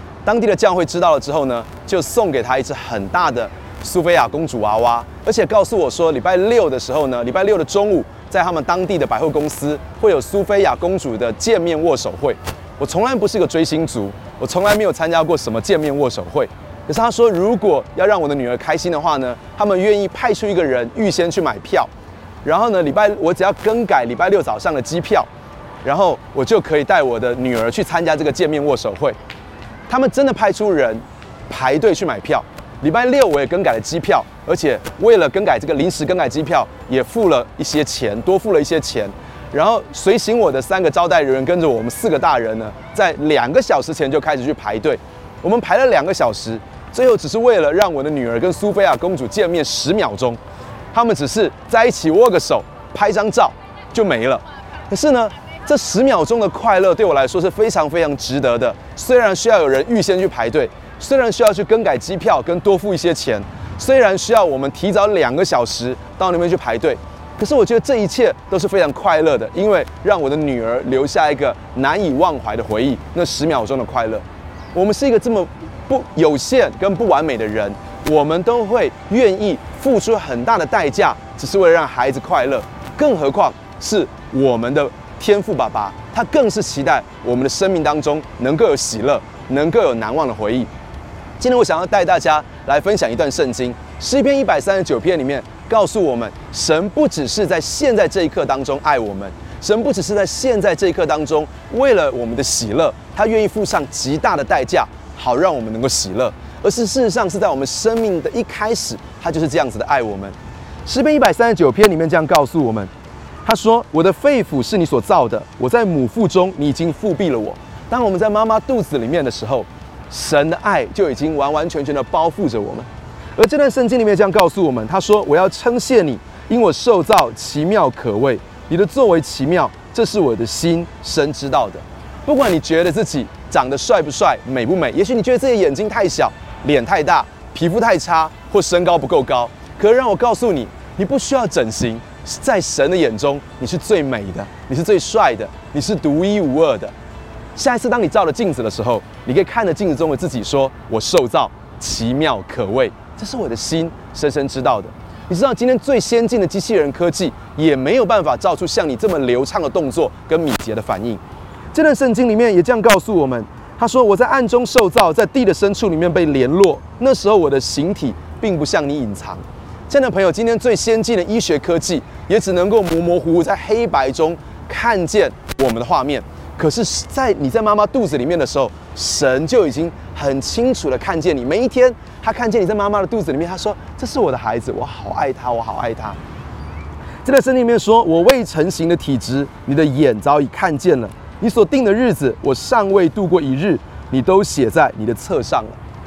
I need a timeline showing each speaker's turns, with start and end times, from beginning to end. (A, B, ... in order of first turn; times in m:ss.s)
0:00.2-0:21.9 A
0:22.4-0:25.3 A
0:25.8-0:29.2 A
0:29.9-0:50.4 A
0:50.9-1:30.7 A
1:31.4-1:50.3 A
1:50.8-1:52.9 A
1:53.4-2:26.9 A
2:27.6-2:41.2 A
2:41.7-3:06.2 A
3:07.2-3:15.8 A